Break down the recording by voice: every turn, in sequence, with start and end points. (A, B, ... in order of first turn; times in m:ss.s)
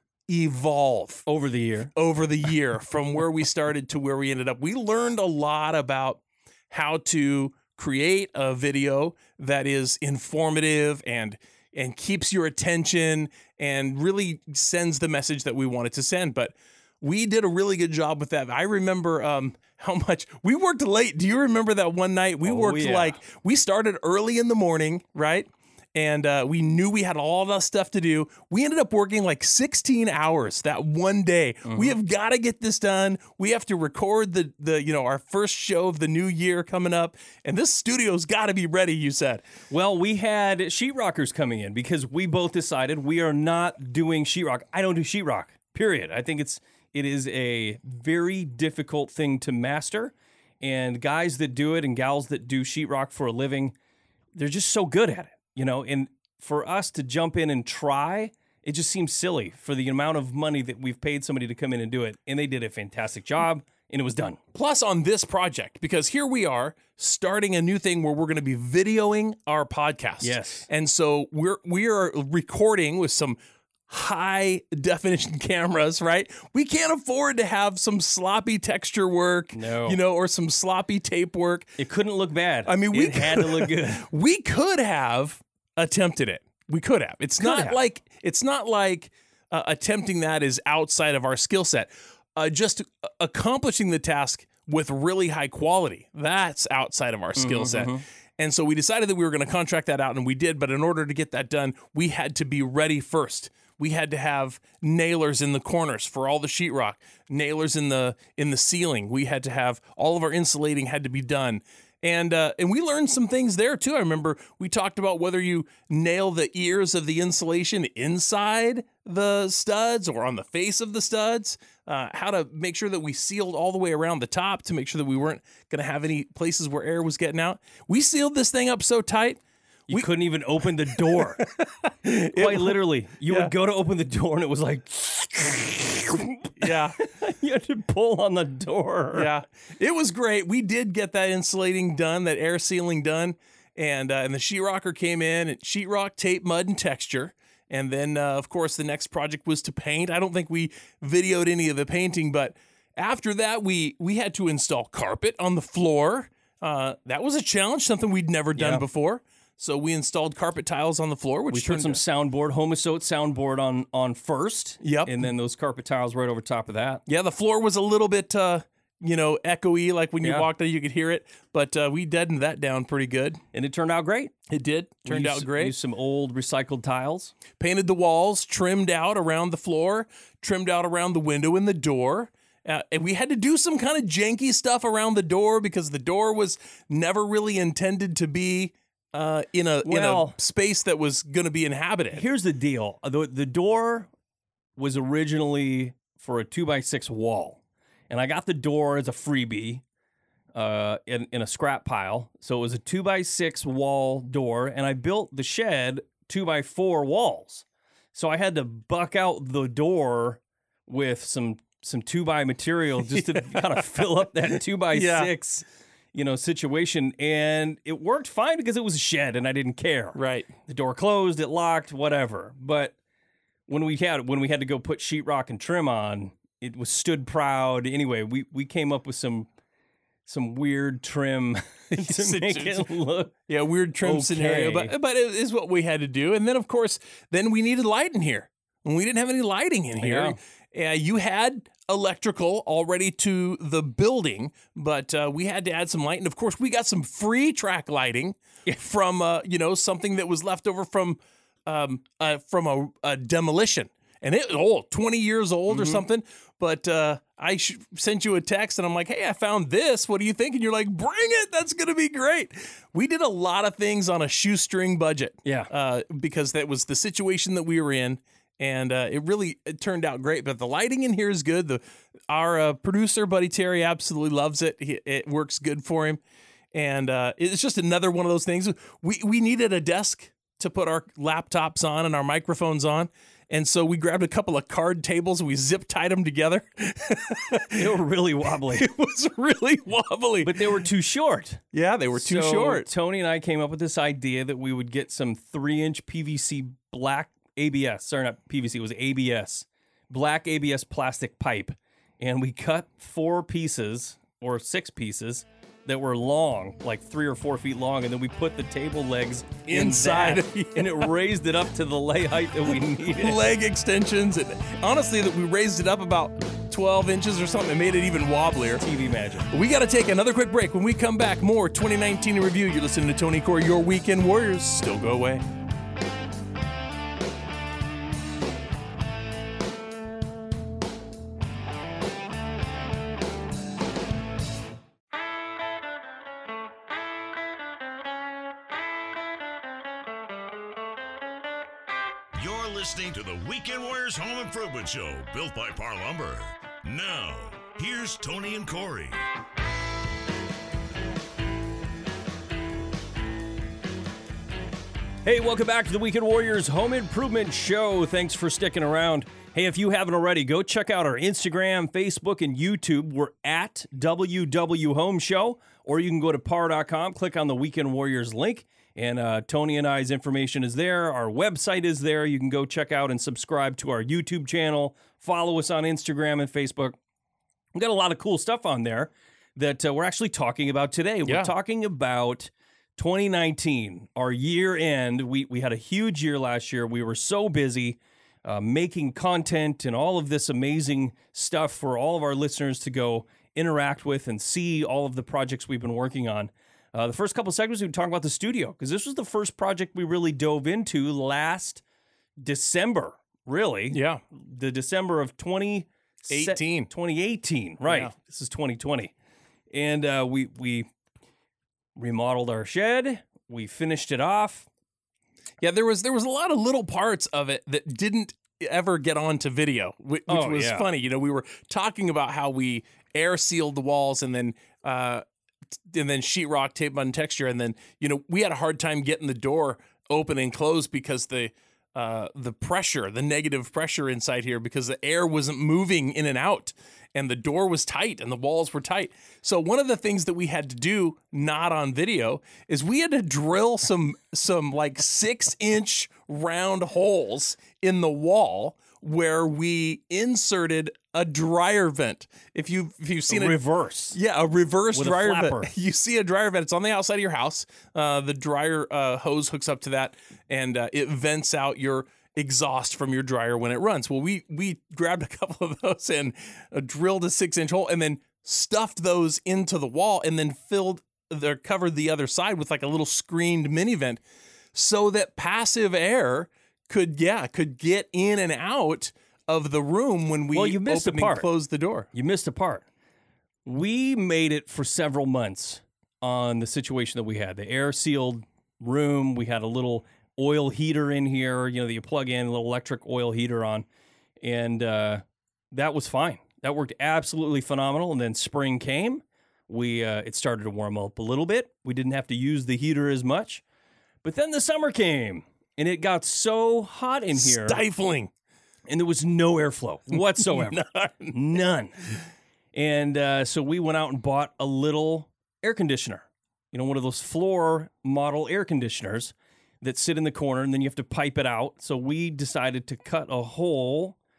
0:00.3-0:01.2 A
0:01.3-0:01.9 B
0:01.9-0:39.4 A
0:22.4-0:23.2 B
0:31.6-0:31.9 B
0:39.7-0:53.7 B
0:54.3-1:04.4 B
1:04.5-1:13.4 A
1:10.2-1:10.7 B
1:13.9-1:21.7 A
1:19.5-1:20.0 B
1:21.8-1:24.1 B
1:22.7-2:10.1 A
1:27.4-1:27.8 B
1:37.4-1:38.0 B
2:09.9-2:11.4 B
2:10.9-2:13.5 A
2:12.1-2:19.3 B
2:16.6-2:17.0 A
2:19.1-2:42.0 A
2:38.5-2:38.8 B
2:41.5-2:47.0 B
2:44.8-2:45.2 A
2:47.1-2:53.4 A
2:53.5-2:54.3 B
2:54.5-2:55.7 A
2:55.0-2:57.3 B
2:57.6-3:12.2 A
3:09.8-3:10.4 B
3:12.1-3:14.1 B
3:14.8-3:19.8 B
3:20.5-3:43.0 B
3:33.1-3:33.8 A
3:34.9-3:35.3 A
3:40.1-3:40.5 A
3:43.7-3:49.5 B
3:50.2-3:53.4 B
3:51.9-3:52.9 A
3:53.5-4:36.2 A
3:54.0-3:54.9 B
4:00.0-4:00.4 B
4:15.7-4:16.0 B
4:25.4-4:25.7 B
4:36.7-4:48.0 A
4:47.7-4:48.8 B
4:48.6-4:50.8 A
4:50.4-4:51.6 B
4:51.7-4:52.9 A
4:52.2-5:13.4 B
5:09.7-5:11.1 A
5:13.1-5:18.8 A
5:18.8-5:19.5 B
5:19.5-5:25.4 A
5:42.3-5:49.2 C
5:55.2-6:17.0 B
6:17.7-6:41.8 B
6:21.2-6:21.5 A
6:42.4-6:49.1 B
6:43.9-6:44.2 A
6:46.3-6:46.9 A
6:47.8-6:48.1 A
6:49.7-6:50.9 B
6:52.0-6:54.7 B
6:55.6-7:05.2 A
7:00.3-7:00.8 B
7:05.9-7:33.6 A
7:33.3-7:34.2 B
7:34.1-7:54.2 A
7:34.9-7:35.7 B
7:54.7-8:02.1 A
8:00.5-8:01.5 B
8:02.1-8:02.8 B
8:03.6-8:13.8 B
8:14.4-8:23.6 B
8:24.2-8:27.8 B
8:27.4-8:28.3 A
8:28.9-8:32.0 B
8:30.1-8:31.3 A
8:32.7-8:44.2 B